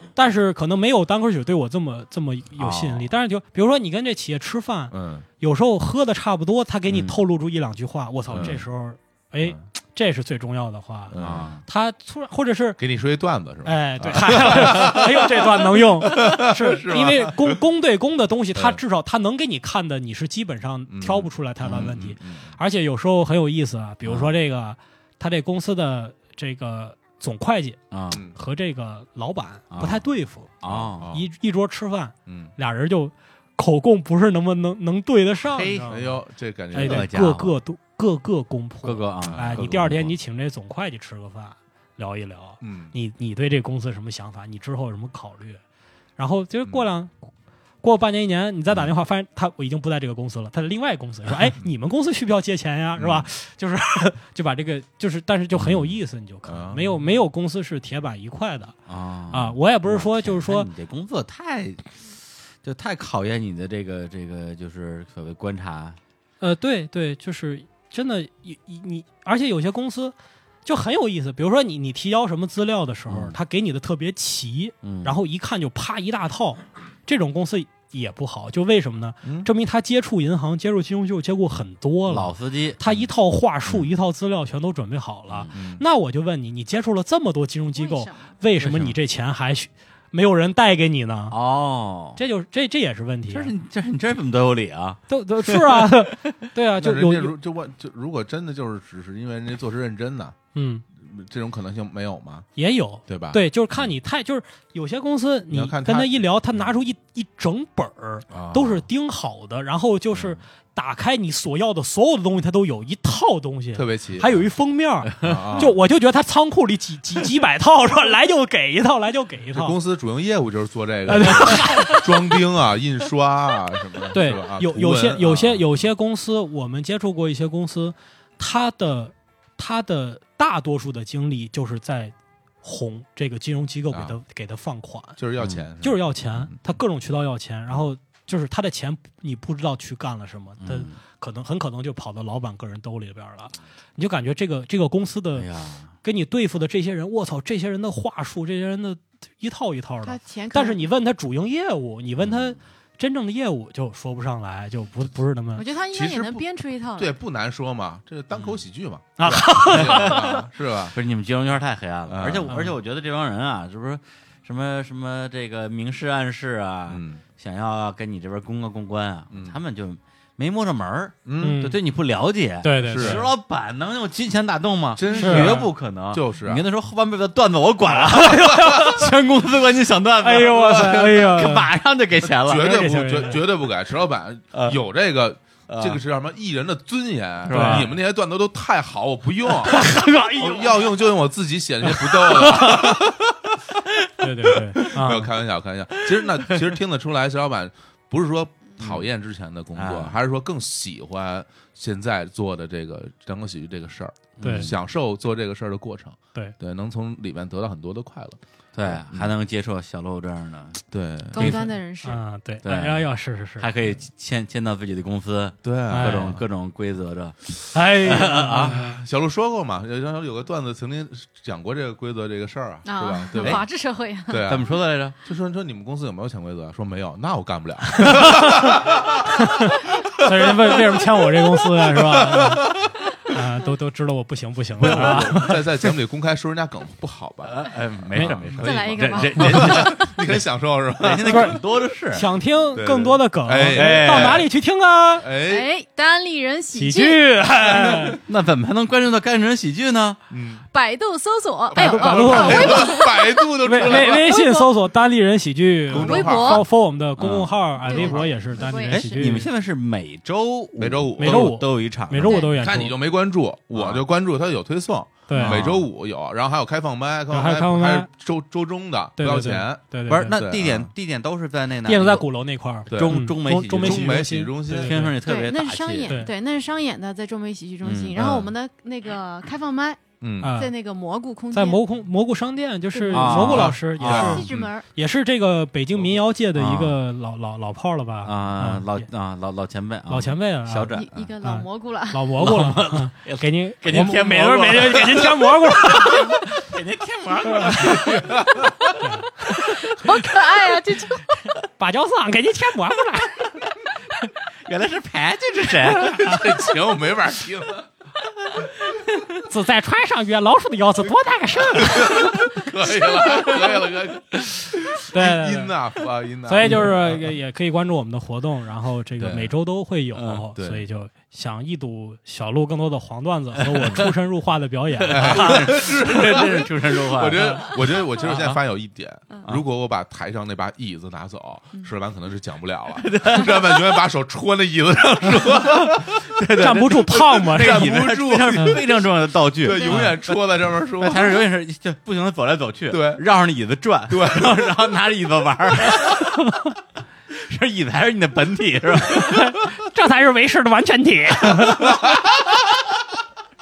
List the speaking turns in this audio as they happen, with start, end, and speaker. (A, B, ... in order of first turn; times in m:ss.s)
0:00.2-0:12.8 A
0:02.6-0:03.1 B
0:04.9-0:05.3 C
0:06.9-0:07.2 B
0:08.3-0:08.6 C
0:11.1-0:11.6 C
0:11.2-0:11.6 B
0:12.8-0:17.6 C
0:13.6-0:30.6 A
0:18.6-0:18.8 C
0:20.9-0:22.6 C
0:21.6-0:21.9 B
0:24.0-0:24.3 B
0:27.9-0:28.2 B
0:29.7-0:30.0 B
0:30.6-0:31.1 B
0:30.6-0:31.2 C
0:31.1-0:36.2 A
0:32.3-0:32.5 C
0:35.5-0:35.9 B
0:35.8-0:37.1 C
0:36.7-0:45.6 A
0:36.8-0:37.6 B
0:38.8-0:40.1 B
0:39.2-0:39.9 C
0:42.6-0:42.9 C
0:46.2-0:47.2 A
0:47.8-0:58.8 A
0:53.0-0:53.3 C
0:55.6-0:55.9 B
0:56.5-0:57.0 C
0:58.9-1:02.0 B
0:59.3-1:00.7 A
1:02.6-1:06.0 B
1:06.4-1:31.4 A
1:13.1-1:13.4 B
1:14.8-1:15.2 B
1:19.2-1:19.5 C
1:22.1-1:23.0 B
1:25.3-1:25.6 B
1:25.5-1:25.8 C
1:27.8-1:28.3 D
1:28.6-1:29.0 B
1:31.3-1:32.2 B
1:32.2-1:33.5 A
1:33.3-1:36.4 B
1:35.1-1:37.4 A
1:36.8-1:40.4 C
1:40.6-1:40.8 A
1:41.0-1:42.5 C
1:42.6-1:59.8 A
1:43.1-1:43.4 C
1:45.5-1:46.2 C
1:48.3-1:48.8 C
1:53.7-1:54.4 C
1:55.2-1:55.8 C
1:59.5-2:05.8 C
2:01.1-2:02.2 A
2:04.1-2:15.2 A
2:13.9-2:14.2 C
2:15.2-2:16.6 C
2:15.4-2:15.6 B
2:15.8-2:25.5 A
2:20.6-2:21.0 B
2:25.4-2:25.9 B
2:26.0-2:35.6 A
2:30.0-2:30.8 D
2:35.6-2:37.1 D
2:35.9-2:36.4 C
2:37.0-2:41.0 C
2:39.2-2:40.4 A
2:39.7-2:40.3 B
2:40.9-3:02.7 B
2:42.1-2:42.6 C
2:42.5-2:42.7 A
2:46.9-2:47.2 C
2:49.3-2:49.6 C
2:51.3-2:51.6 C
2:51.4-2:51.8 A
2:52.6-2:53.3 A
2:52.8-2:53.2 C
2:55.0-2:56.6 C
2:55.2-2:55.7 A
2:58.1-2:59.0 C
3:00.2-3:01.7 A
3:02.2-3:13.6 C
3:02.5-3:03.4 A
3:04.5-3:04.8 B
3:05.7-3:06.0 B
3:07.5-3:07.9 A
3:07.5-3:07.9 B
3:09.7-3:10.8 A
3:12.4-3:12.9 A
3:14.2-3:15.3 A
3:14.8-3:29.3 C
3:16.2-3:16.6 B
3:18.8-3:19.1 B
3:19.8-3:20.2 B
3:24.4-3:24.8 B
3:24.4-3:24.7 A
3:28.7-3:30.8 B
3:30.9-3:31.6 C
3:31.3-3:32.2 D
3:31.4-3:31.7 B
3:32.0-3:33.7 A
3:32.6-3:33.1 B
3:33.6-3:37.4 B
3:35.6-3:36.4 C
3:35.9-3:36.4 A
3:37.7-3:39.0 A
3:38.0-3:38.8 B
3:38.5-3:43.6 C
3:42.9-3:44.5 D
3:44.3-3:44.7 C
3:44.5-3:45.2 B
3:45.2-3:50.8 C
3:48.0-3:55.6 A
3:51.8-3:52.9 C
3:54.8-4:01.6 C
3:57.4-4:00.4 B
3:58.6-4:00.1 D
4:01.0-4:02.3 B
4:01.3-4:01.6 A
4:02.1-4:05.3 A
4:02.7-4:04.5 C
4:03.7-4:04.4 B
4:05.2-4:05.7 C
4:05.4-4:07.2 D
4:06.7-4:08.2 A
4:08.2-4:10.2 B
4:10.3-4:10.6 C
4:10.7-4:14.7 D
4:11.7-4:14.4 C
4:11.8-4:13.0 A
4:13.6-4:19.5 A
4:15.9-4:16.6 C
4:15.9-4:16.6 D
4:17.2-4:17.6 B
4:17.8-4:19.3 D
4:17.9-4:18.5 C
4:18.9-4:22.5 B
4:20.8-4:21.6 C
4:21.2-4:23.0 A
4:22.2-4:22.5 D
4:22.6-4:30.9 C
4:23.7-4:24.0 B
4:25.3-4:25.6 A
4:25.3-4:25.8 B
4:27.3-4:28.1 A
4:29.2-4:30.4 A
4:30.1-4:32.3 B
4:31.9-4:35.2 A
4:32.9-4:36.2 B
4:32.9-4:35.1 C
4:35.2-4:41.8 D
4:37.8-4:38.4 B
4:38.2-4:38.5 C
4:40.2-4:40.6 C
4:40.4-4:40.7 A
4:41.5-4:49.1 A
4:42.9-4:44.9 D
4:43.1-4:44.3 B
4:43.3-4:44.7 C
4:46.6-4:47.0 B
4:48.2-4:51.3 B
4:50.1-4:56.7 A
4:50.9-4:52.4 D
4:52.4-4:58.2 B
4:57.5-4:58.1 A
4:57.8-4:59.0 C
4:59.0-5:00.4 A
4:59.9-5:01.2 D
5:01.5-5:03.6 A
5:04.6-5:06.5 B
5:06.1-5:07.9 C
5:09.4-5:12.5 A
5:11.8-5:17.3 C
5:15.1-5:15.7 A
5:16.5-5:25.7 A
5:19.2-5:19.5 C
5:20.2-5:20.5 B
5:20.6-5:20.9 C
5:23.7-5:24.1 B
5:25.0-5:28.4 B
5:25.1-5:36.2 C
5:27.4-5:27.6 A
5:33.0-5:34.0 B
5:35.4-5:40.2 B
5:36.6-5:38.8 A
5:37.4-5:41.4 C
5:39.9-5:40.1 A
5:41.0-5:46.6 B
5:42.9-5:43.2 C
5:44.1-5:44.7 C
5:47.3-5:49.6 B
5:49.1-5:52.1 A
5:51.7-5:52.2 C